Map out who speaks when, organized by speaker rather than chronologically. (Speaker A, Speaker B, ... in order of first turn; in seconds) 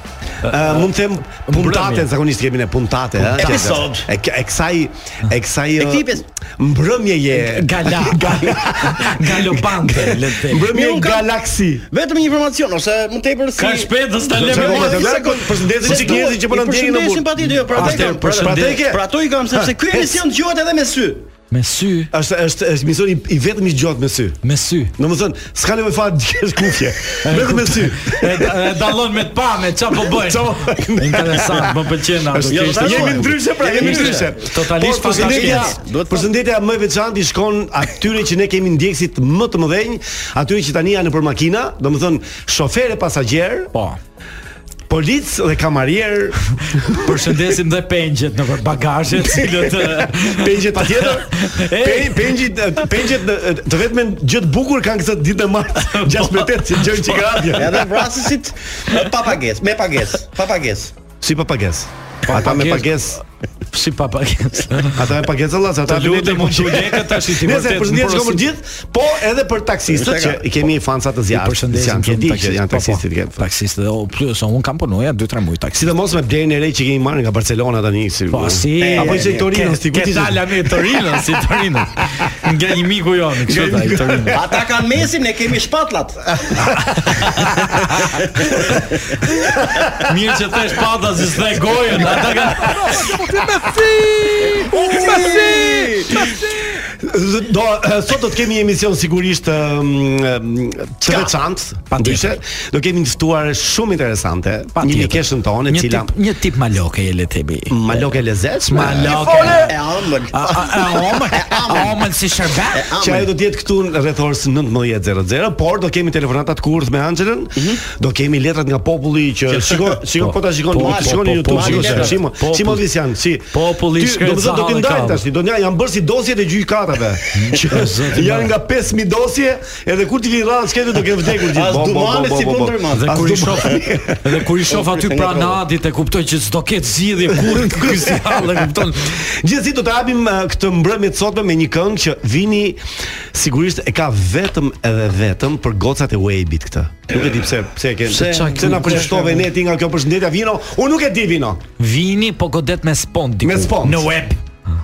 Speaker A: 0.4-11.8, 14.4-20.2, 22.1-24.4, 25.0-28.6, 30.0-31.8, 32.3-43.7, 44.9-46.8, 49.8-57.9, 61.2-63.2, 64.9-73.5, 75.7-81.0, 83.4-84.6, 94.9-95.2, 96.9-106.1, 107.7-109.7, 113.0-134.4, 137.7-138.4, 139.2-142.8, 143.3-151.6, 153.4-154.1
Speaker B: 0.4-0.8, 1.4-2.1, 3.2-4.0, 7.3-10.7, 13.6-15.2, 15.8-16.2, 17.4-18.8, 21.5-22.1, 24.4-24.9, 27.2-35.7, 46.9-52.3, 55.8-57.6, 62.3-63.2, 63.7-65.1, 65.8-68.4, 71.3-75.8, 78.3-84.4, 86.6-95.1, 101.9-102.3, 104.8-109.7, 110.3-112.8, 120.2-122.9, 123.5-125.2, 127.3-128.5, 132.9-139.2, 148.1-149.4, 151.8-154.4
Speaker C: 3.4-4.0, 5.8-6.2, 10.7-11.3, 11.9-21.3, 32.5-34.3, 35.1-36.3, 57.5-60.9, 69.9-70.6, 78.8-79.5, 84.3-86.2, 88.2-89.0, 94.5-96.4, 101.0-101.3, 109.0-112.1, 112.7-113.3, 117.6-117.8, 119.5-120.0, 120.8-122.2, 131.4-133.8, 134.7-135.6